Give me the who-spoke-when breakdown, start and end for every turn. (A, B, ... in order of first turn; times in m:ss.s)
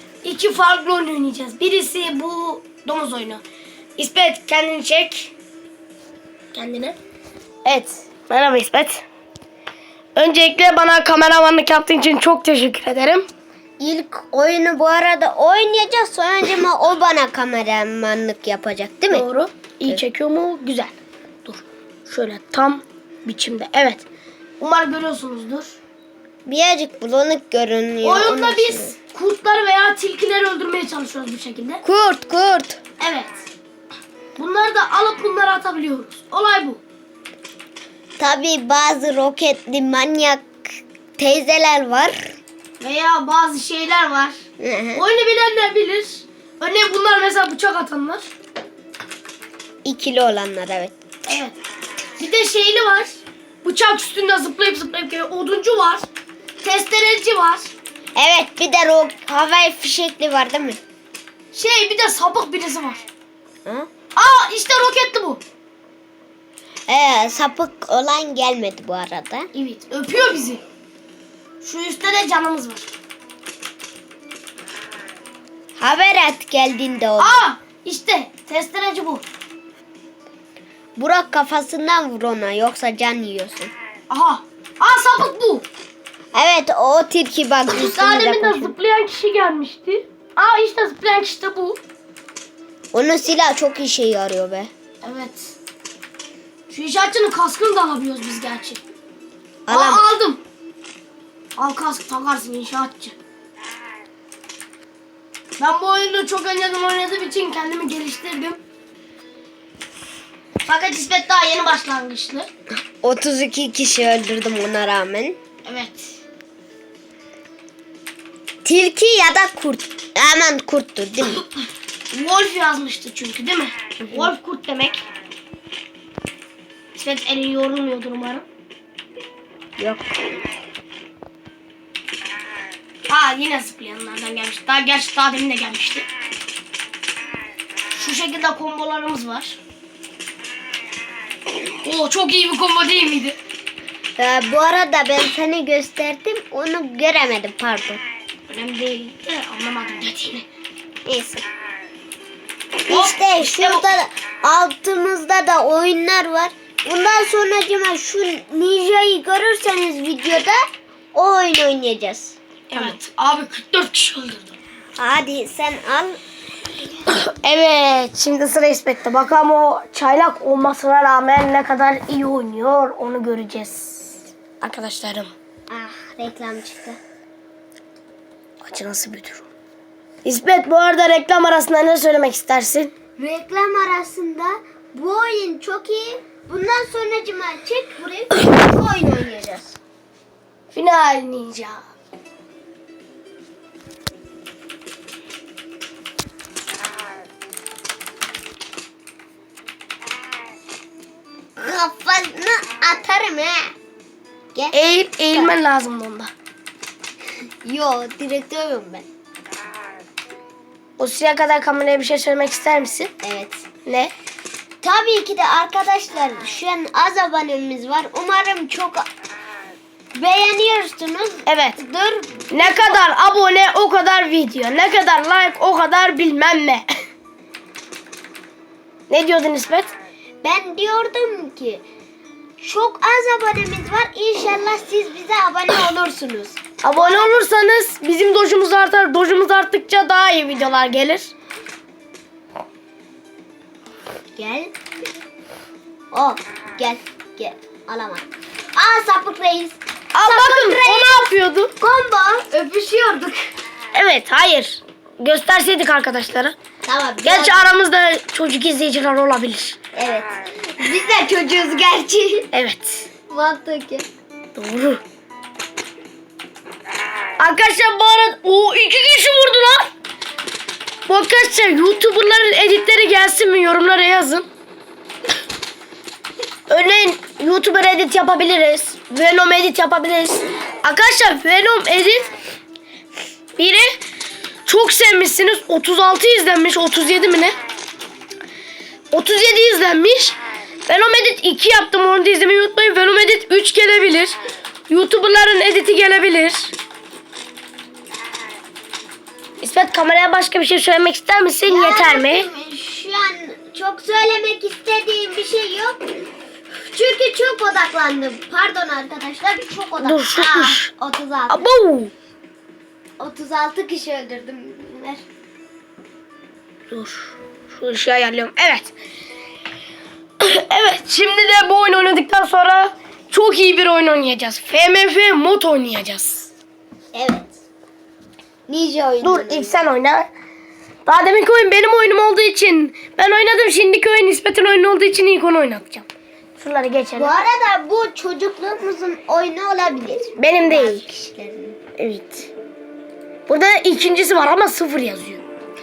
0:00.2-0:03.4 A
0:04.0-0:05.3 A
0:06.5-0:07.0 A
0:07.6-0:09.0 A
0:10.2-0:13.2 A
0:13.8-0:19.2 B
0:19.1-0:20.9 A
0:21.4-0:24.0 A
0:24.6-0:25.8 A
0:26.4-0:28.9 B
0:28.0-0:31.8 A
0:31.8-0:32.8 B
0:33.0-0:33.5 A
0:34.4-0:36.8 A
0:38.2-0:40.5 B
0:41.2-0:42.4 B
0:42.8-0:44.4 A
0:44.6-0:45.0 B
0:44.9-0:48.3 A
0:49.8-0:51.0 B
0:51.2-0:51.6 A
0:52.2-0:56.0 A
0:56.6-0:57.7 A
0:58.2-1:00.8 B
1:01.5-1:03.0 A
1:04.1-1:05.4 A
1:06.9-1:09.5 B
1:09.5-1:10.6 A
1:11.6-1:12.9 A
1:15.8-1:17.4 B
1:17.2-1:19.2 A
1:21.0-1:23.7 B
1:24.1-1:25.6 A
1:26.3-1:28.8 B
1:27.7-1:31.8 A
1:32.9-1:34.7 B
1:35.0-1:35.5 A
1:36.7-1:38.8 A
1:39.7-1:40.1 B
1:39.7-1:40.4 A
1:41.6-1:43.2 A
1:45.6-1:48.6 A
1:50.6-1:52.5 A
1:53.0-1:55.4 B
1:55.6-1:56.2 A
1:58.6-2:01.4 B
2:02.1-2:05.0 A
2:04.0-2:04.3 B
2:06.9-2:08.4 A
2:09.8-2:10.4 B
2:13.1-2:16.1 A
2:17.9-2:19.6 A
2:21.8-2:23.3 A
2:24.2-2:28.0 B
2:28.5-2:30.4 A
2:31.0-2:31.4 B
2:32.8-2:40.6 B
2:32.9-2:33.9 A
2:41.1-2:43.0 B
2:42.7-2:44.5 A
2:45.0-2:46.2 B
2:47.1-2:55.3 A
2:55.7-2:57.0 B
2:58.6-2:59.5 A
3:00.2-3:02.9 A
3:03.2-3:09.8 B
3:10.7-3:11.8 A
3:21.6-3:23.7 B
3:24.7-3:26.3 A
3:27.6-3:29.1 B
3:31.0-3:33.1 A
3:33.2-3:33.6 B
3:33.8-3:34.1 A
3:34.8-3:39.1 B
3:40.1-3:43.0 B
3:41.4-3:41.8 A
3:42.5-3:46.8 A
3:49.1-3:49.9 A
3:50.4-3:51.8 B
3:52.6-3:57.4 B
3:56.8-4:01.3 A
4:04.4-4:04.7 B
4:06.1-4:11.3 B
4:10.1-4:11.7 A
4:11.8-4:13.4 B
4:13.9-4:16.5 A
4:16.8-4:17.7 B
4:17.2-4:19.8 A
4:19.9-4:22.5 B
4:22.5-4:23.1 A
4:23.3-4:24.0 B
4:24.6-4:25.0 A
4:27.4-4:29.9 A
4:31.1-4:34.4 A
4:36.7-4:42.2 A
4:43.6-4:44.0 A
4:44.6-4:47.6 A
4:49.1-4:54.4 A
4:54.9-4:56.7 A
4:59.6-5:02.5 A
5:01.7-5:06.1 B
5:06.9-5:11.6 B
5:10.0-5:10.9 A
5:11.5-5:12.1 A
5:13.2-5:15.2 B
5:16.9-5:18.9 A
5:20.4-5:26.5 A
5:27.1-5:27.6 B
5:28.7-5:29.8 B
5:29.2-5:30.2 A
5:31.0-5:37.4 A
5:37.2-5:41.8 B
5:40.4-5:41.0 A
5:42.0-5:42.5 A
5:43.5-5:45.4 A